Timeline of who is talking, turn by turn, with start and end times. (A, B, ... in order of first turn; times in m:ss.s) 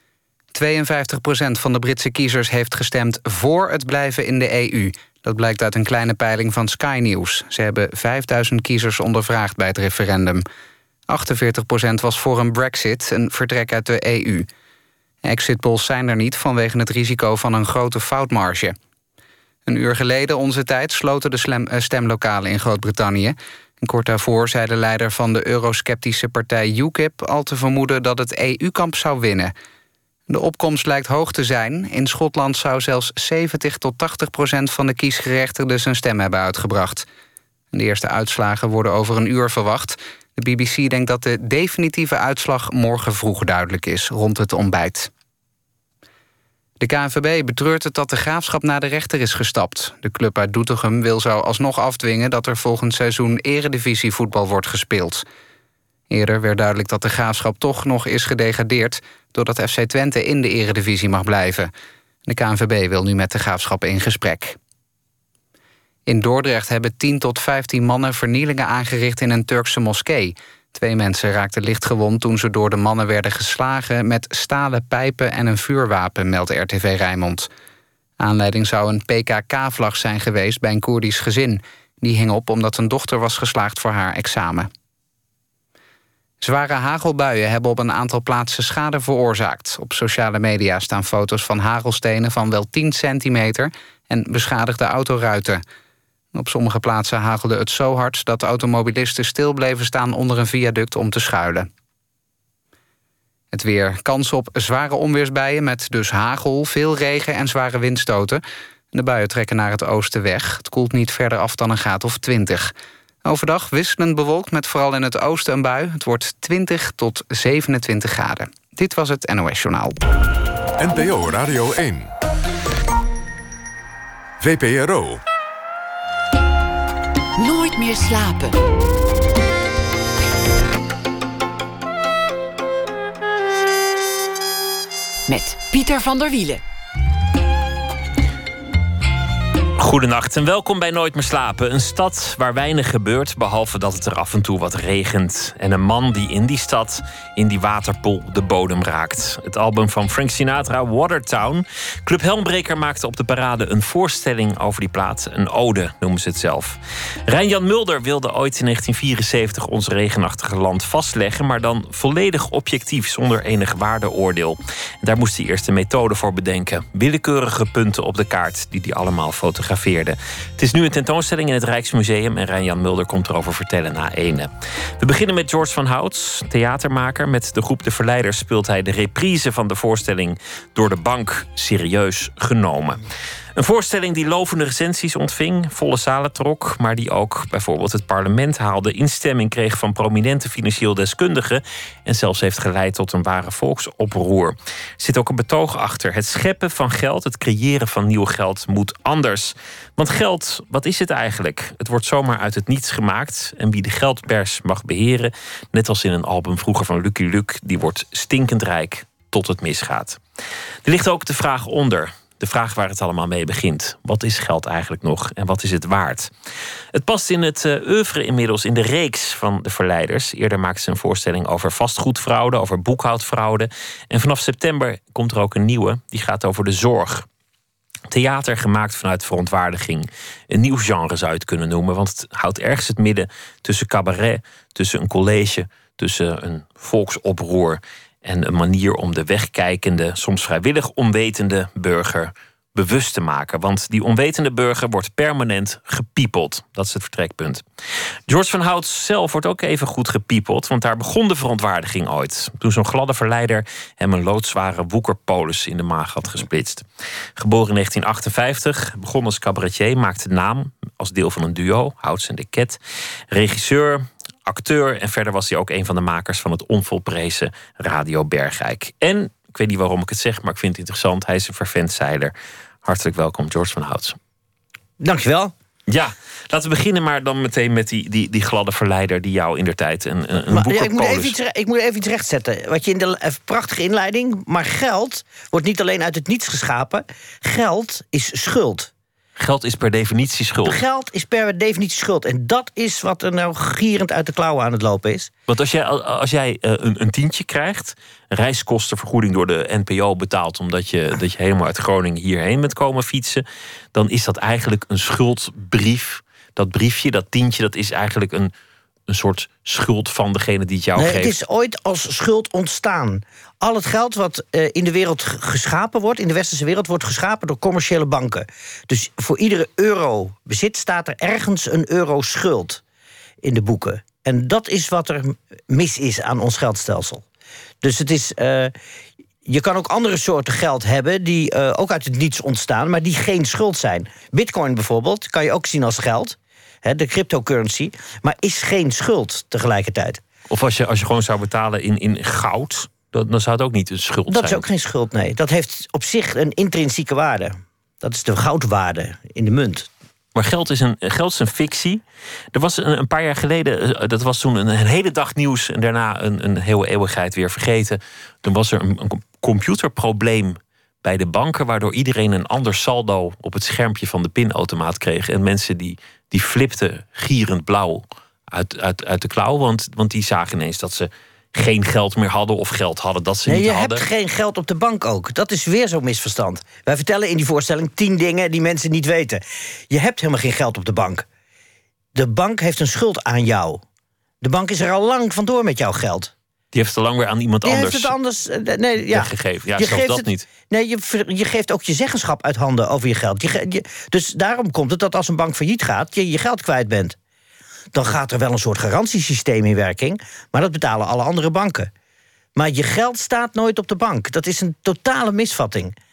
0:00.5-0:10.4 A
0:11.1-0:14.5 A
0:15.2-0:18.8 A
0:19.7-0:29.5 A
0:30.3-0:37.1 A
0:37.7-0:45.1 A
0:46.8-0:55.2 A
0:56.1-1:01.7 A
1:02.3-1:04.6 A
1:06.1-1:17.5 A
1:18.2-1:24.7 A
1:26.4-1:35.6 A
1:36.3-1:41.7 A
1:43.5-1:48.4 A
1:48.9-1:52.7 A
1:53.2-2:00.0 A
2:00.8-2:02.1 B
2:04.4-2:05.2 B
2:07.4-2:08.6 C
2:15.3-2:16.6 C
2:19.8-3:03.0 D
3:03.6-3:30.2 D
3:30.8-3:36.3 D
3:36.9-3:47.3 D
3:48.1-4:07.6 D
4:08.3-4:16.9 D
4:17.4-4:22.8 D
4:23.3-4:32.3 D
4:32.8-4:34.2 D
4:35.0-4:35.5 E
4:35.9-4:41.4 D
4:40.5-4:48.9 E
4:49.4-4:50.8 D
4:50.6-4:55.3 E
4:55.5-5:08.5 D
5:09.1-5:11.3 D
5:11.0-5:22.8 E
5:23.4-5:27.2 E
5:27.8-5:28.7 E
5:29.4-5:40.2 E
5:40.5-5:44.6 D
5:44.3-5:49.9 E
5:50.4-5:52.0 D
5:52.5-6:14.0 D
6:13.5-6:21.3 E
6:22.2-6:23.8 E
6:24.4-6:26.3 E
6:26.7-6:28.1 D
6:27.6-6:37.2 E
6:29.1-6:30.5 D
6:37.9-6:41.9 E
6:42.6-6:46.0 E